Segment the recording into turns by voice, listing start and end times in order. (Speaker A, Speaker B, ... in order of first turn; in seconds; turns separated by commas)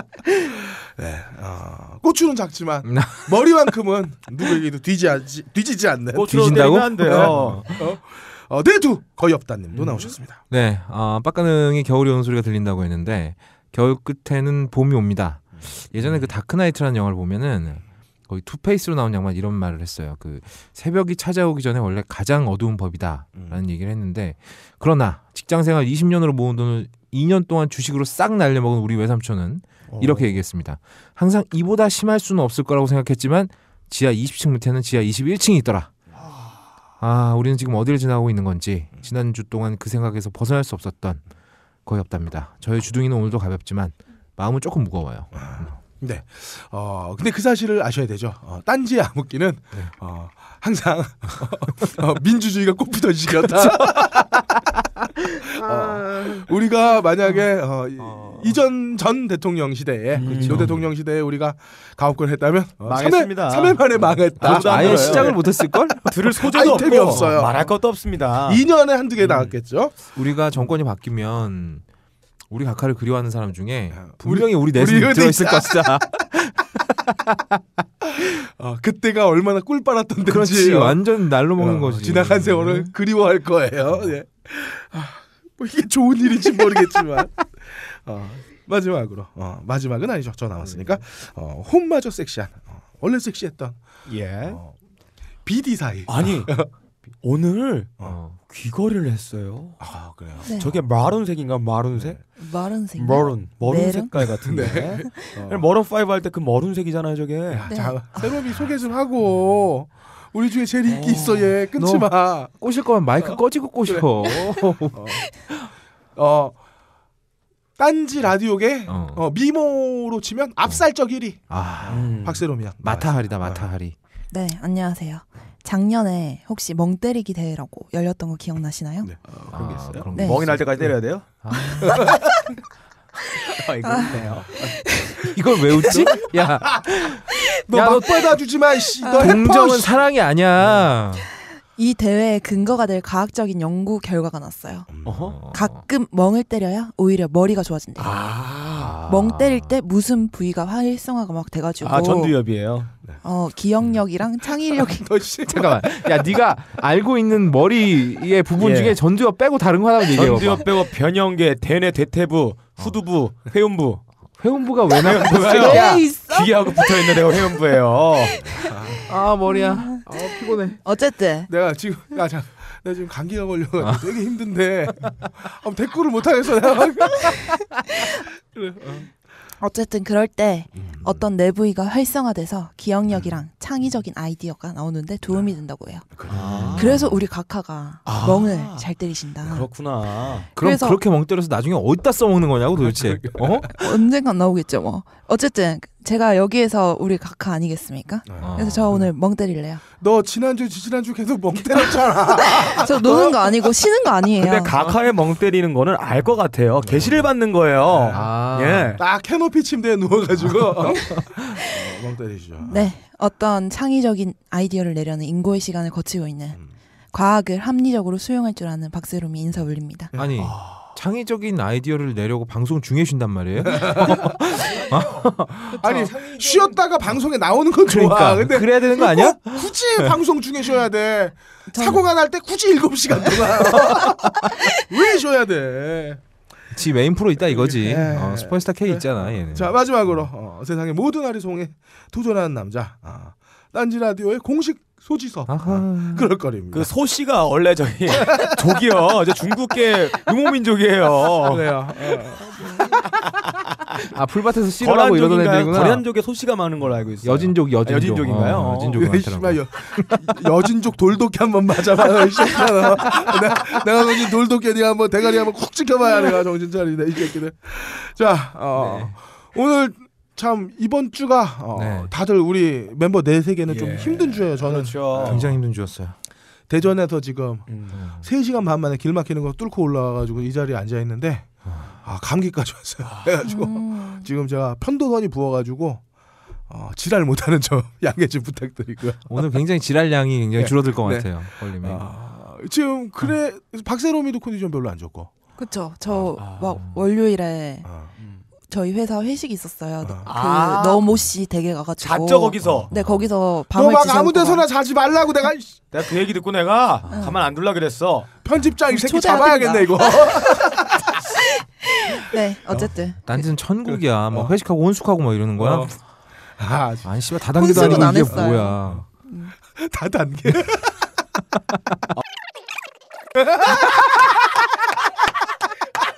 Speaker A: 0.6-6.6, Speaker B: 2.9-3.3, Speaker C: 6.1-7.7, Speaker B: 6.3-7.8, Speaker A: 7.7-10.4, Speaker B: 10.5-35.9, Speaker C: 29.9-30.4, Speaker C: 36.2-36.5, Speaker B: 37.0-41.2, Speaker B: 41.9-45.6, Speaker A: 45.4-54.4, Speaker A: 55.5-67.6, Speaker C: 55.6-56.4, Speaker C: 58.0-58.5, Speaker C: 60.1-60.7, Speaker B: 60.4-60.8, Speaker C: 62.8-65.3, Speaker B: 64.4-66.2, Speaker C: 66.0-68.6, Speaker A: 68.5-70.0, Speaker C: 69.2-69.5, Speaker B: 70.2-71.8, Speaker B: 72.5-77.3, Speaker A: 74.1-76.0, Speaker A: 78.1-81.0, Speaker B: 80.2-82.9, Speaker A: 81.6-93.8, Speaker C: 94.1-94.6, Speaker A: 95.5-96.7, Speaker C: 96.1-99.8, Speaker B: 98.0-98.4, Speaker A: 99.8-100.5, Speaker D: 100.4-100.7, Speaker C: 100.6-102.2, Speaker D: 102.4-104.8, Speaker C: 103.0-107.7, Speaker A: 104.5-105.6, Speaker A: 107.5-112.5, Speaker D: 107.7-108.4, Speaker C: 110.9-111.5, Speaker B: 111.8-115.7, Speaker A: 114.9-115.2, Speaker A: 116.2-116.6, Speaker A: 117.8-123.7, Speaker B: 118.9-119.2, Speaker B: 121.5-122.1, Speaker C: 121.9-122.4, Speaker B: 122.8-124.0, Speaker D: 124.3-129.1, Speaker A: 129.0-130.1, Speaker B: 129.5-132.2, Speaker D: 130.2-130.4, Speaker C: 130.2-131.3, Speaker D: 131.7-132.2, Speaker C: 133.5-134.5, Speaker D: 133.9-136.2, Speaker B: 135.3-138.4, Speaker A: 137.7-140.0, Speaker D: 139.0-139.4, Speaker B: 139.2-141.3, Speaker D: 141.8-144.9, Speaker A: 144.9-145.2, Speaker C: 145.0-145.4, Speaker B: 145.3-145.8, Speaker D: 145.5-148.1, Speaker C: 148.0-149.0, Speaker B: 148.8-149.8, Speaker D: 149.1-152.3, Speaker C: 151.8-152.9, Speaker D: 153.2-155.1, Speaker A: 154.7-156.4, Speaker B: 155.5-160.7, Speaker C: 158.6-159.0, Speaker C: 160.1-164.0, Speaker B: 164.4-166.1, Speaker C: 164.9-168.6, Speaker D: 165.5-167.2, Speaker D: 168.4-171.5, Speaker A: 168.7-169.0, Speaker B: 169.1-170.8, Speaker A: 171.5-177.6, Speaker A: 178.5-179.1, Speaker D: 179.6-186.1, Speaker A: 180.8-181.1, Speaker A: 186.1-186.9, Speaker C: 186.3-187.0, Speaker B: 186.6-187.2, Speaker D: 186.8-189.7, Speaker C: 188.1-188.9, Speaker C: 189.4-190.5, Speaker D: 190.6-191.0, Speaker B: 190.6-193.8, Speaker A: 192.8-193.9, Speaker D: 193.8-199.8, Speaker A: 198.3-198.6, Speaker B: 198.4-199.0, Speaker A: 200.0-203.7, Speaker D: 202.4-204.7, Speaker C: 204.4-209.0, Speaker A: 206.8-207.3, Speaker A: 207.9-208.3, Speaker B: 208.1-209.0, Speaker A: 209.0-212.9, Speaker D: 212.7-216.6, Speaker D: 217.1-220.1, Speaker A: 220.1-220.4, Speaker B: 220.2-225.9, Speaker C: 220.4-220.8, Speaker A: 223.6-224.2, Speaker C: 224.4-226.8, Speaker A: 225.7-236.2, Speaker B: 227.9-230.1, Speaker D: 231.7-232.0, Speaker B: 233.7-234.5, Speaker B: 236.8-239.7, Speaker A: 237.4-246.9, Speaker B: 245.5-246.3, Speaker C: 246.7-251.7, Speaker A: 251.5-252.9, Speaker B: 254.1-256.0, Speaker C: 254.8-259.0, Speaker B: 257.2-260.1, Speaker A: 259.0-275.5, Speaker B: 268.8-269.1, Speaker B: 271.8-272.1, Speaker C: 273.7-275.5, Speaker B: 275.2-276.1, Speaker A: 276.7-286.0, Speaker C: 277.7-278.0, Speaker B: 278.0-278.2, Speaker B: 281.7-281.9, Speaker C: 283.1-283.3, Speaker D: 283.4-284.3, Speaker A: 286.7-289.5, Speaker B: 289.3-292.1, Speaker A: 290.6-295.3, Speaker D: 295.6-297.9, Speaker B: 296.4-296.9, Speaker C: 298.2-298.4, Speaker D: 298.7-304.7, Speaker C: 300.2-301.1, Speaker C: 302.0-302.9, Speaker B: 302.9-303.3, Speaker A: 303.7-305.8, Speaker C: 305.9-308.3, Speaker B: 307.1-307.3, Speaker D: 307.1-307.4, Speaker A: 308.4-311.0, Speaker D: 308.9-310.6, Speaker D: 311.4-313.2, Speaker B: 313.2-316.0, Speaker A: 313.9-314.6, Speaker A: 315.6-315.9, Speaker A: 316.6-319.0, Speaker B: 317.0-319.0, Speaker D: 317.6-319.6, Speaker A: 319.8-321.1, Speaker A: 323.4-323.9